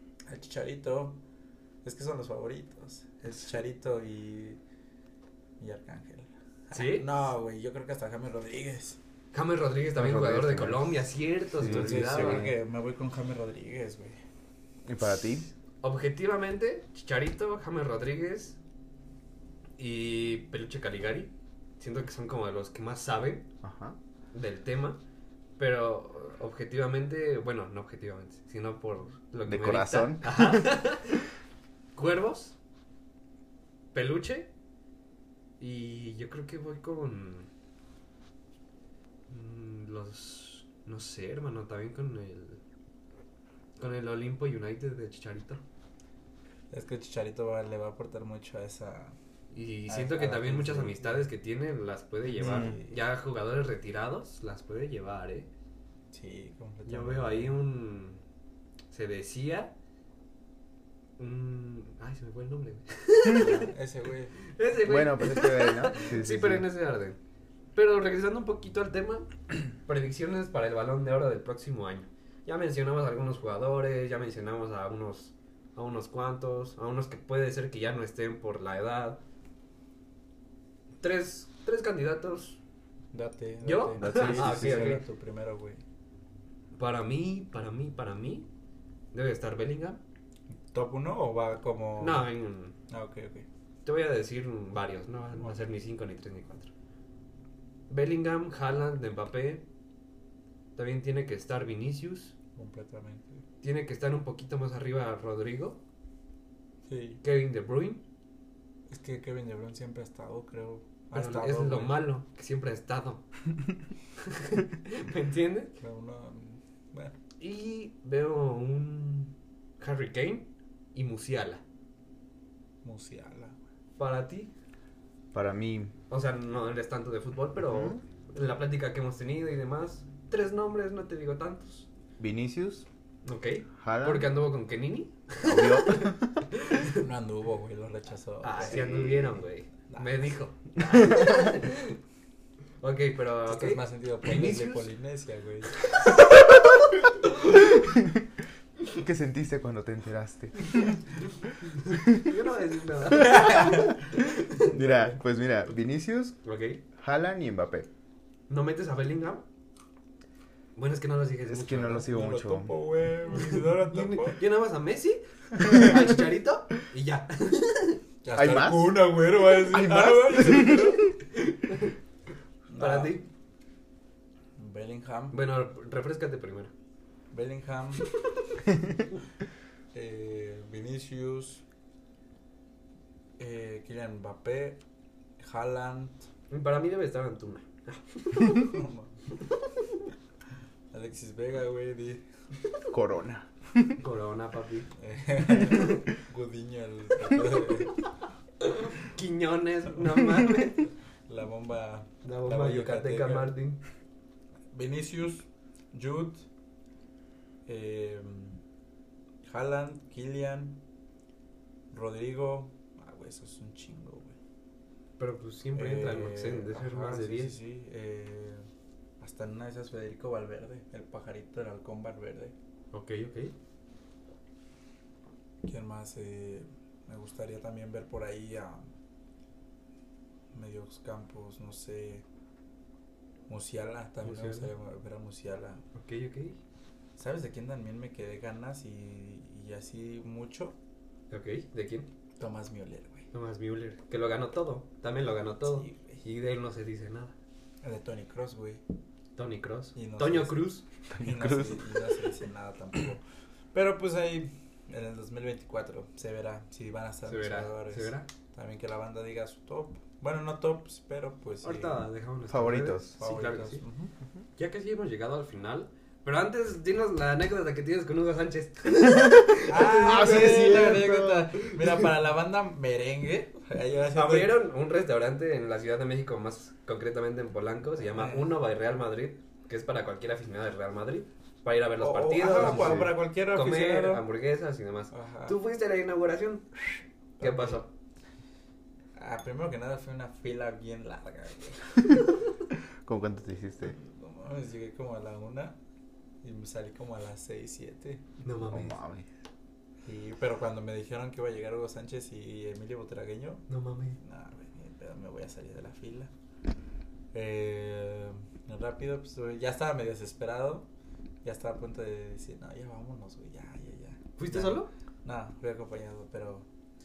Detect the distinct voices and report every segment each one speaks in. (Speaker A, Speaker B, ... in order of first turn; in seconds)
Speaker A: 0.3-1.2, 1.8-4.6, 5.6-9.0, 11.6-14.2, 46.7-49.2, 49.9-51.3, 52.3-53.0, 56.1-57.6, 63.3-64.4, 83.1-85.8, 90.7-92.3, 92.9-93.5, 102.6-103.4, 106.9-107.2, 108.9-112.0, 115.8-117.2, 122.8-123.5, 137.0-140.4, 143.5-145.9, 162.0-164.4, 168.2-171.0, 172.7-173.2, 174.6-175.4, 177.3-178.1, 179.9-181.6, 183.4-184.8, 185.4-186.2, 188.7-189.1, 190.9-192.2, 195.0-198.0, 200.4-203.6, 204.7-206.4, 207.7-208.6, 209.4-210.8, 211.9-214.3, 215.8-218.7, 219.2-222.5, 225.6-228.9, 230.5-232.2, 233.5-235.8, 237.2-240.8, 242.4-243.3, 245.6-246.2, 247.8-248.8, 249.9-253.2, 253.7-262.1, 263.2-264.1, 269.7-274.6, 278.0-278.5, 282.0-284.3, 285.1-285.6, 287.4-287.8, 289.2-292.3, 294.0-295.8, 296.4-298.2, 300.1-303.6, 304.2-306.3, 307.3-310.9, 311.4-316.7
Speaker B: 6.7-7.1, 9.3-12.5, 15.8-18.6, 19.8-23.5, 24.3-25.0, 25.6-31.3, 31.9-32.6, 33.9-34.5, 35.6-37.5, 39.3-42.6, 43.8-45.6, 49.5-55.5, 56.9-58.2, 58.9-59.7, 61.2-63.7, 64.5-67.2, 67.8-79.2, 81.0-82.6, 83.6-85.0, 86.8-88.5, 89.1-90.0, 92.0-92.8, 93.8-96.7, 97.9-99.7, 100.8-102.3, 103.6-105.8, 107.2-108.0, 111.1-113.2, 114.2-115.8, 117.4-121.6, 124.0-124.5, 126.1-131.9, 133.2-137.0, 138.4-142.0, 142.8-144.9, 145.8-147.8, 151.7-155.1, 156.4-156.8, 158.5-159.4, 160.8-162.1, 163.6-168.0, 171.3-171.9, 172.8-173.2, 175.3-176.7, 186.5-188.8, 194.0-194.9, 195.7-196.0, 198.6-200.8, 202.2-203.8, 215.2-217.6, 222.9-223.6, 234.2-234.7, 235.9-236.6, 241.3-242.1, 243.3-247.3, 249.4-250.8, 257.3-258.3, 261.6-263.8, 264.6-272.0, 274.1-287.9, 298.4-299.0, 303.7-304.2, 314.4-314.9
Speaker C: 10.0-10.9, 11.6-12.6, 14.9-15.5, 23.6-24.0, 29.5-30.7, 52.4-52.8, 64.8-66.7, 84.0-85.0, 125.3-125.9, 127.6-128.0, 132.2-132.9, 133.8-134.3, 135.4-136.3, 138.6-139.0, 147.9-148.2, 148.9-151.0, 151.9-152.2, 153.1-156.4, 156.9-157.9, 161.5-162.7, 168.3-171.0, 192.9-194.0, 251.1-251.8, 262.5-263.2, 270.0-271.5, 282.6-283.1, 293.1-294.0, 298.7-299.3